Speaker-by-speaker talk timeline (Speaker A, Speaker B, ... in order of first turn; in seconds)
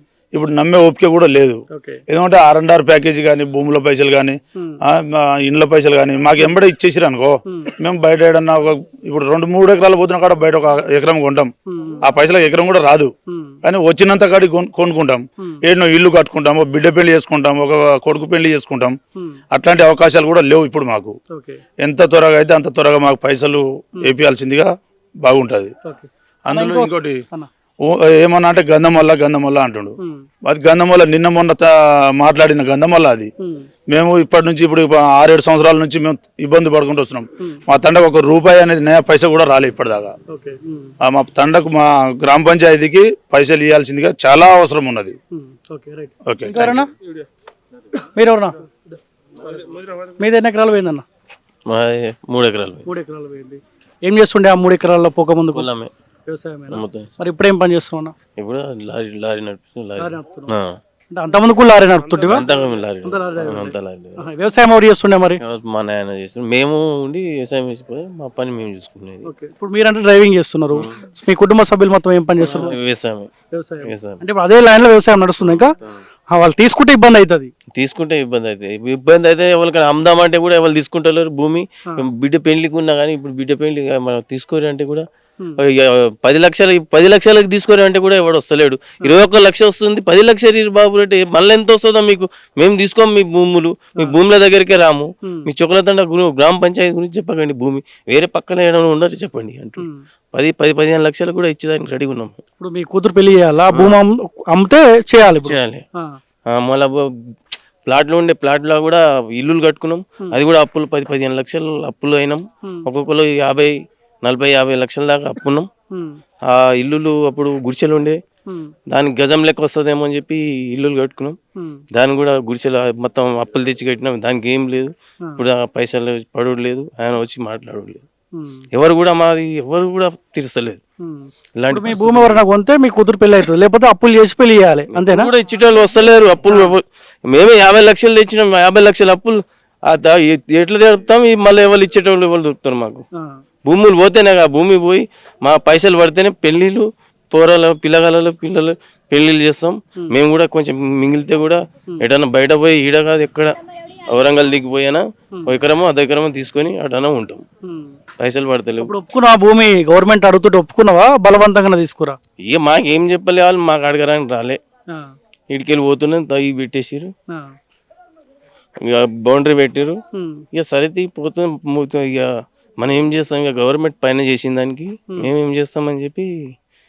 Speaker A: 0.3-11.5, 12.0-13.1, 13.6-19.0, 19.5-21.1, 21.8-24.7, 25.2-25.7, 26.5-27.2, 27.8-33.3, 33.9-40.1, 41.0-45.2, 46.2-46.8
Speaker B: 1.7-2.0, 11.7-12.0, 13.3-13.6, 21.3-21.6, 25.8-27.5, 33.4-33.7, 40.3-40.9, 45.3-46.9, 48.0-48.5, 50.1-51.0, 52.9-55.7, 56.3-58.1, 60.0-60.5, 61.1-62.5, 63.0-65.4, 69.2-72.8, 73.5-75.7, 76.3-77.5, 89.0-89.3, 102.6-106.1, 115.9-116.2, 118.5-118.7, 121.5-121.8, 128.3-128.6, 131.0-135.3, 143.1-143.4, 157.6-158.0, 158.8-162.2, 167.3-167.5, 170.1-170.4
Speaker C: 51.7-52.8, 55.5-55.9, 56.7-57.1, 58.4-60.7, 62.2-64.2, 65.4-69.3, 72.4-73.3, 73.8-74.2, 77.7-85.0, 85.6-102.4, 103.7-104.0, 105.3-105.8, 106.5-107.0, 107.8-115.7, 116.4-118.2, 118.9-121.4, 121.9-128.1, 128.7-130.8, 131.6-132.4, 134.9-143.0, 143.6-157.4, 158.2-158.9, 162.5-164.6, 165.5-167.1, 168.8-170.0, 170.5-176.5